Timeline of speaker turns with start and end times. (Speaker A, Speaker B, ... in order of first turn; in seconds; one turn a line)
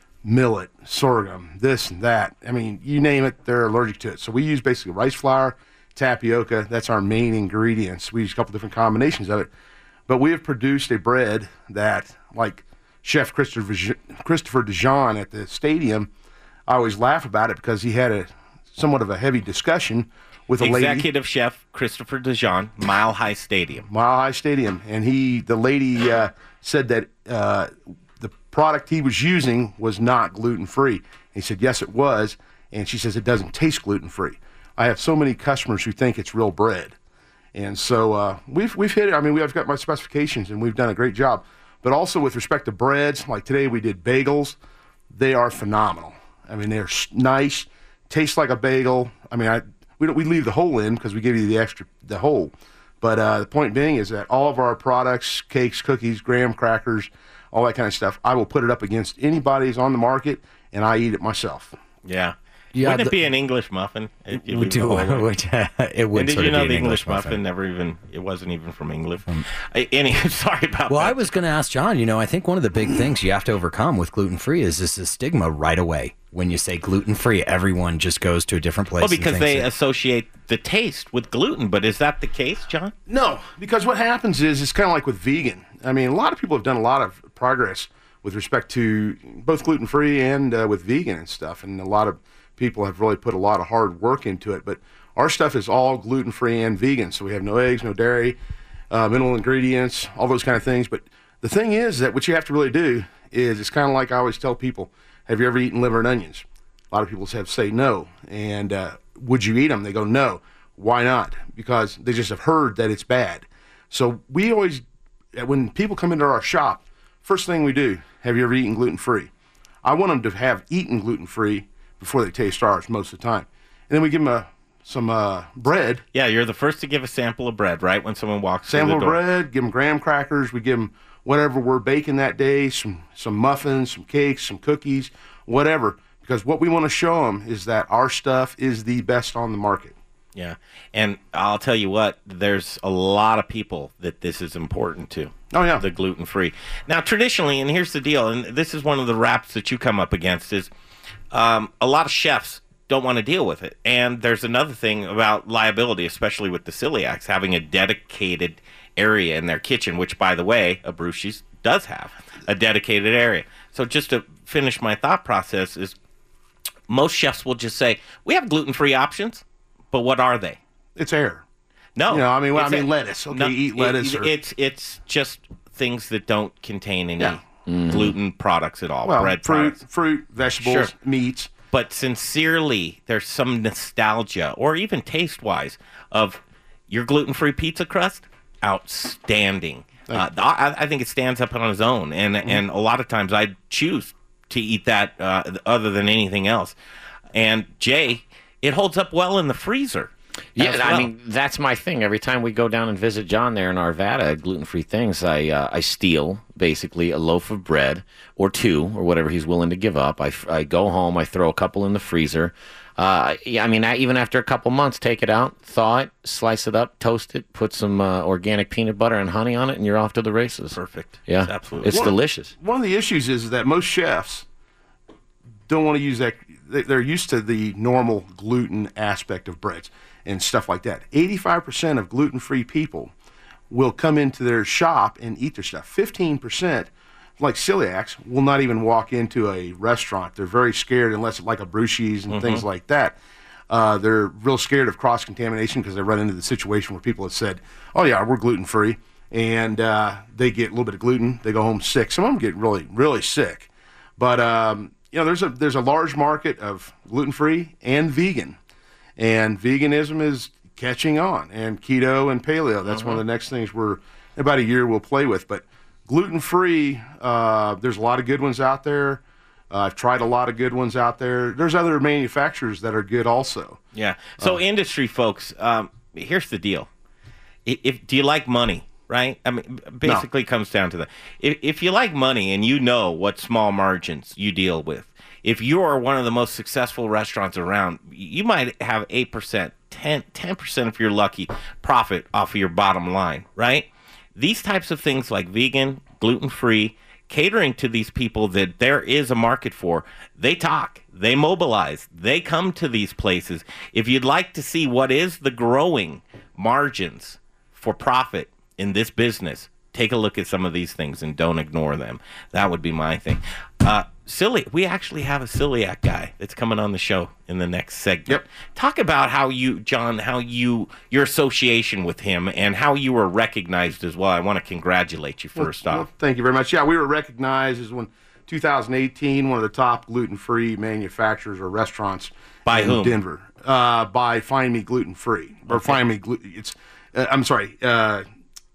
Speaker A: 0.2-9.5
Speaker A: 10.1-16.1
Speaker A: 16.7-21.1
Speaker B: 20.6-23.9
Speaker A: 23.9-36.9
Speaker A: 37.5-44.6
Speaker A: 45.1-61.8
Speaker B: 62.0-65.3
Speaker C: 62.8-63.2
Speaker C: 64.3-67.4
Speaker B: 66.1-71.2
Speaker C: 70.9-79.7
Speaker B: 79.0-82.9
Speaker A: 83.1-98.4
Speaker A: 98.9-114.8
Speaker A: 115.3-119.3
Speaker A: 119.8-126.0
Speaker B: 126.1-129.2
Speaker A: 128.7-139.9
Speaker B: 140.3-150.7
Speaker A: 145.5-145.8
Speaker B: 151.3-166.0
Speaker B: 166.9-170.6
Speaker A: 170.9-171.4
Speaker B: 171.9-179.8
Speaker A: 172.1-174.3
Speaker D: 177.7-178.1
Speaker A: 179.0-181.5
Speaker B: 180.6-180.9
Speaker B: 181.7-196.8
Speaker B: 197.3-201.1
Speaker D: 200.6-222.5
Speaker B: 220.7-222.1
Speaker A: 221.9-224.4
Speaker A: 225.7-233.1
Speaker A: 233.7-243.2
Speaker B: 242.3-242.6
Speaker A: 243.7-258.6
Speaker A: 259.2-273.8
Speaker B: 262.9-263.2
Speaker B: 273.9-276.9
Speaker B: 277.6-326.1
Speaker A: 325.6-338.2
Speaker B: 332.6-333.2
Speaker B: 335.7-336.0